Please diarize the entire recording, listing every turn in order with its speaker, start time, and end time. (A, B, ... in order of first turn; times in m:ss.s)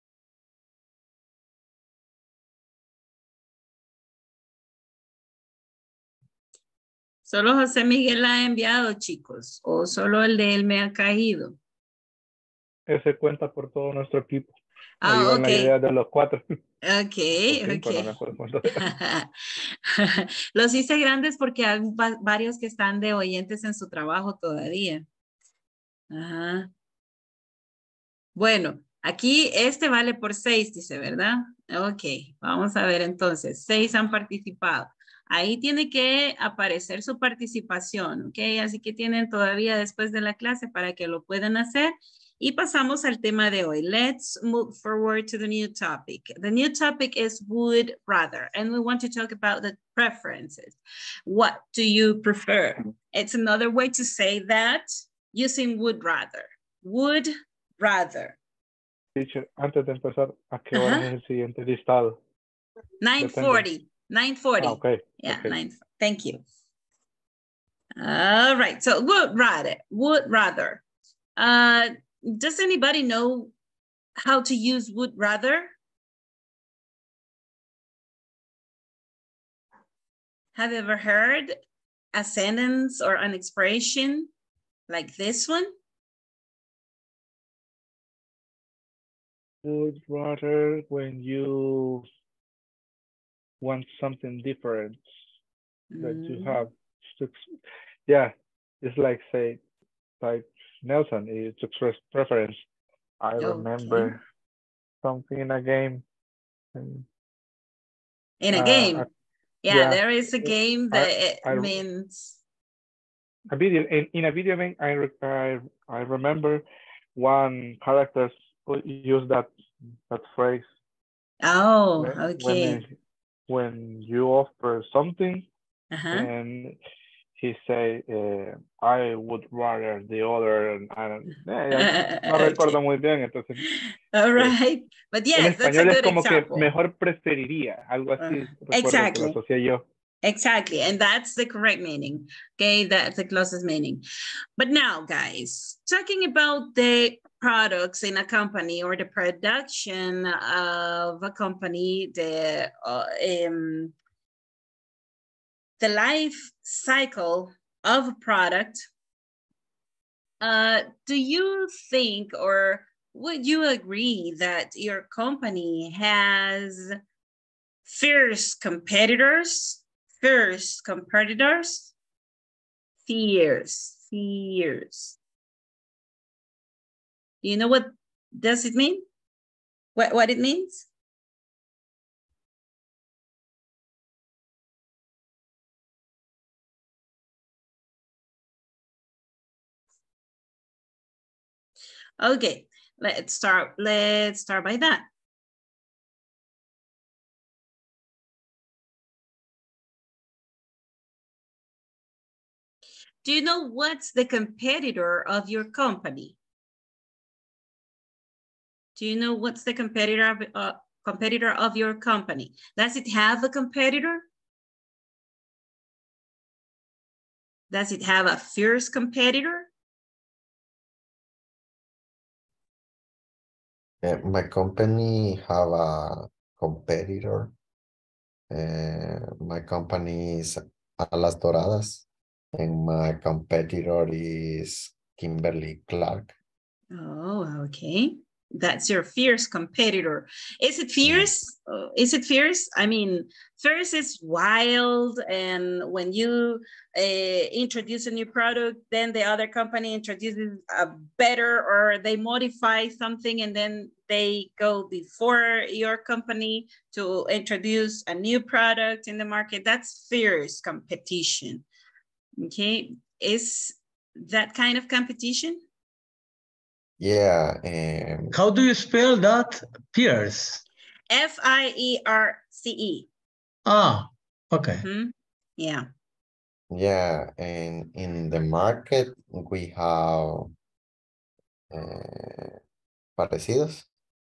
0:07.2-0:11.6 A
0:12.9-0:16.4 B
0:15.0-0:15.7 A
0:16.8-0:18.1 A
0:17.4-0:18.8 B
0:18.7-0:25.0 A
0:26.1-0:26.7 A
0:28.4-0:58.4 A
0:59.2-1:02.2 B
1:00.7-1:01.1 A
1:03.0-1:06.4 A
1:03.2-1:03.7 B
1:04.6-1:05.6 B
1:08.0-1:10.8 A
1:11.4-1:13.5 A
1:14.2-1:15.7 A
1:20.5-1:21.5 A
1:22.1-1:24.3 A
1:24.9-1:25.7 A
1:29.6-1:32.1 B
1:33.6-1:35.0 B
1:35.9-1:36.6 A
1:36.0-1:37.4 B
1:38.1-1:39.6 B
1:40.2-1:42.6 B
1:43.2-1:44.2 B
1:43.4-1:44.2 A
1:45.0-1:46.0 B
1:46.7-1:47.0 B
1:48.4-1:49.0 A
1:48.5-1:49.1 B
1:49.6-1:52.3 A
1:49.7-1:51.8 B
1:53.5-1:56.6 B
1:57.2-1:59.5 B
2:00.1-2:00.7 B
2:01.4-2:02.8 A
2:02.0-2:02.9 B
2:03.5-2:05.5 B
2:05.9-2:06.3 A
2:06.1-2:06.8 B
2:07.4-2:13.6 B
2:11.7-2:12.8 A
2:13.6-2:16.7 A
2:15.3-2:19.8 B
2:18.2-2:19.4 A
2:20.2-2:24.0 A
2:24.6-2:33.9 A
2:35.8-2:38.9 A
2:40.4-2:46.9 A
2:47.8-2:51.9 A
2:53.1-2:55.2 A
2:57.4-2:59.0 A
3:00.0-3:00.8 A
3:12.2-3:15.0 A
3:23.2-3:26.4 A
3:29.0-3:34.2 A
3:37.7-3:39.7 A
3:44.0-3:47.5 C
3:48.5-3:56.3 C
3:56.9-4:21.6 A
4:01.0-4:01.3 C
4:22.4-4:25.6 A
4:27.0-4:28.3 C
4:28.3-4:30.6 D
4:31.1-4:33.1 A
4:33.6-4:34.8 D
4:34.8-4:35.9 A
4:36.7-4:40.5 C
4:41.7-4:42.6 C
4:43.2-4:43.9 C